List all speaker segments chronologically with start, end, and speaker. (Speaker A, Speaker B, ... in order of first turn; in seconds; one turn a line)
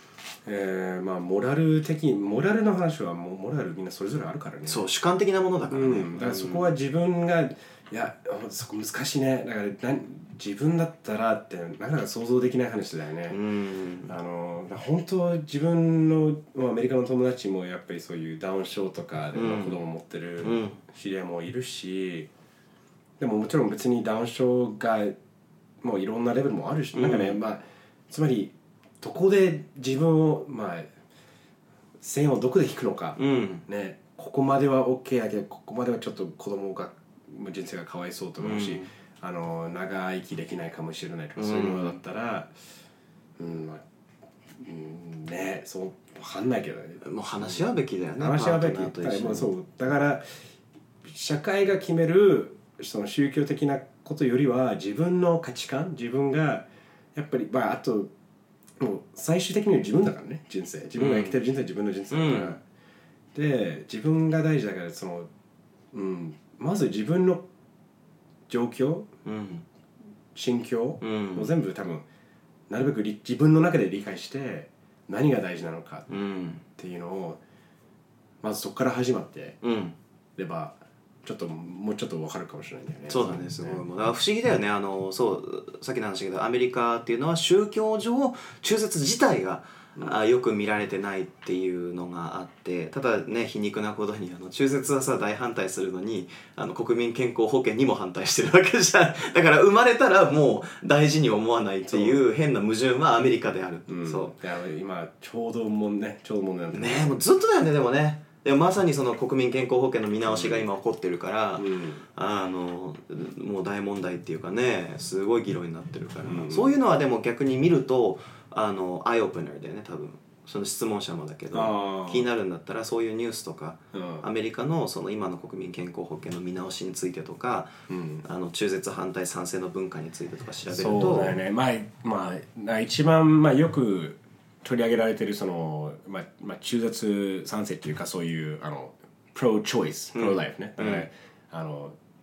Speaker A: 0.5-4.8
Speaker B: 4.7-6.8
Speaker A: 5.7-13.4
Speaker B: 13.3-14.1
Speaker A: 14.1-22.3
Speaker B: 19.3-19.8
Speaker B: 20.4-20.8
Speaker A: 23.2-25.1
Speaker A: 25.8-30.9
Speaker B: 26.9-27.4
Speaker A: 32.0-42.5
Speaker B: 33.2-33.6
Speaker B: 38.4-38.9
Speaker B: 41.4-42.0
Speaker A: 43.4-43.8
Speaker A: 44.6-47.6
Speaker B: 47.0-49.5
Speaker A: 48.2-50.2
Speaker A: 51.0-58.1
Speaker A: 58.8-62.6
Speaker B: 61.0-61.4
Speaker B: 62.1-62.6
Speaker A: 63.3-65.3
Speaker A: 65.9-67.5
Speaker A: 68.5-69.1
Speaker B: 69.2-69.7
Speaker A: 70.3-72.1
Speaker B: 71.0-71.5
Speaker A: 72.7-76.1
Speaker B: 76.1-76.7
Speaker A: 76.8-77.4
Speaker A: 78.4-79.6
Speaker B: 79.6-80.0
Speaker A: 80.4-83.8
Speaker B: 83.1-104.4
Speaker A: 101.9-102.2
Speaker A: 103.9-107.2
Speaker B: 106.7-131.4
Speaker A: 110.3-110.7
Speaker A: 111.6-112.0
Speaker A: 116.3-116.8
Speaker A: 121.5-122.3
Speaker A: 123.9-124.3
Speaker A: 127.9-128.2
Speaker A: 130.7-142.0
Speaker B: 140.1-141.1